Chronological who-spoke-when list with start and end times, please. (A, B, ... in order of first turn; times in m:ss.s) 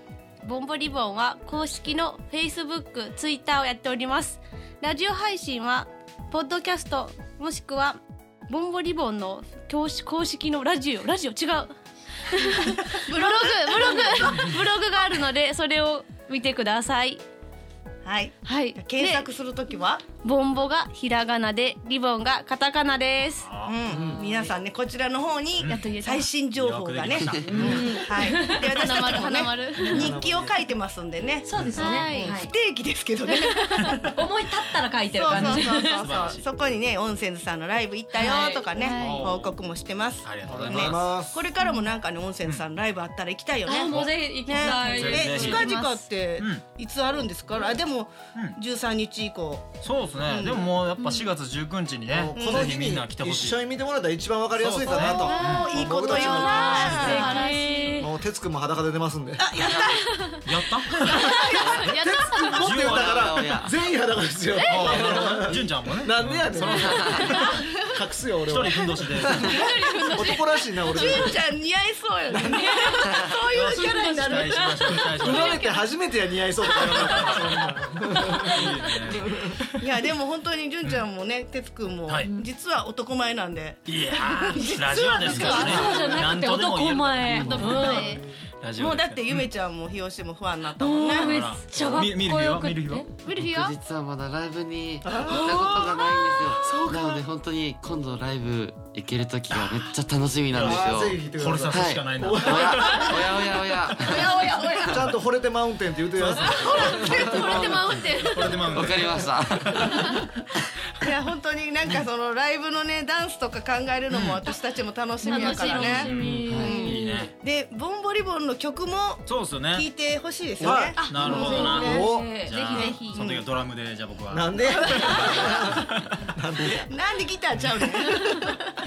0:00.4-0:11.7 A
0:12.3-0:17.2 A
0:12.9-0:14.6 B
0:18.0-0:20.1 B
0:18.4-0:19.3 A
0:20.1-0:23.5 A
0:23.4-0:23.8 C
0:23.6-0:34.0 B
0:23.9-0:24.2 D
0:24.2-0:24.5 E
0:25.6-0:26.3 A
0:26.5-0:28.0 C
0:27.4-0:28.9 E
0:28.6-0:30.1 A
0:29.8-0:30.6 D
0:31.4-0:32.5 E
0:31.5-0:32.0 C
0:31.7-0:32.4 A
0:33.2-0:33.9 A
0:33.8-0:34.1 C
0:34.1-0:36.2 E
0:35.1-0:43.9 B
0:35.2-0:36.4 C
0:38.1-0:39.0 E
0:38.7-0:39.3 A
0:38.9-0:39.5 C
0:40.2-0:41.1 C
0:40.4-0:41.4 D
0:41.6-0:41.9 A
0:43.6-0:45.6 E
0:43.9-0:44.2 C
0:44.4-0:50.7 B
0:44.7-0:45.8 C
0:44.7-0:46.1 A
0:46.4-0:46.6 C
0:49.8-0:53.6 C
0:51.0-0:51.3 A
0:52.1-0:57.3 D
0:52.3-0:52.7 B
0:54.6-0:55.7 C
0:54.9-0:55.7 A
0:55.0-0:57.3 B
0:56.1-0:58.1 E
0:56.6-0:57.2 C
0:57.0-0:58.0 A
0:58.0-0:59.6 D
0:59.4-1:00.2 B
0:59.8-1:00.4 A
1:00.4-1:01.7 C
1:01.0-1:01.9 B
1:01.2-1:02.8 A
1:01.8-1:11.4 D
1:02.5-1:03.7 C
1:02.6-1:03.7 F
1:04.7-1:05.0 A
1:04.7-1:07.6 C
1:06.8-1:07.2 F
1:08.5-1:09.5 C
1:09.4-1:11.3 A
1:10.8-1:15.7 B
1:12.3-1:12.9 D
1:13.5-1:15.6 C
1:13.8-1:15.8 E
1:15.2-1:19.5 D
1:16.6-1:19.8 C
1:18.2-1:18.5 E
1:19.8-1:26.1 B
1:22.2-1:22.4 E
1:23.8-1:27.9 C
1:25.2-1:26.1 D
1:25.3-1:28.2 E
1:27.4-1:28.4 D
1:27.4-1:28.2 A
1:28.6-1:29.5 C
1:28.7-1:31.4 B
1:30.8-1:33.1 E
1:31.2-1:33.1 C
1:31.7-1:32.0 F
1:33.2-1:33.8 A
1:33.2-1:44.4 F
1:35.0-1:35.4 D
1:35.2-1:37.2 B
1:40.5-1:43.3 C
1:40.6-1:43.1 D
1:44.1-1:45.0 B
1:44.1-1:44.9 A
1:44.8-1:47.7 D
1:46.2-1:46.8 C
1:46.4-1:48.7 A
1:46.8-1:50.2 F
1:48.2-1:50.2 C
1:51.0-2:02.2 B
1:54.1-1:54.4 C
1:55.2-1:56.8 A
1:55.2-1:57.3 E
1:55.7-1:57.3 C
1:56.4-1:56.9 F
1:59.2-1:59.9 C
2:00.6-2:01.1 D
2:00.6-2:06.1 C
2:00.8-2:03.0 E
2:01.7-2:02.3 D
2:01.7-2:03.2 A
2:02.7-2:03.4 B
2:04.3-2:05.8 D
2:06.3-2:06.9 D
2:06.7-2:08.7 B
2:07.5-2:07.9 C
2:08.1-2:08.4 A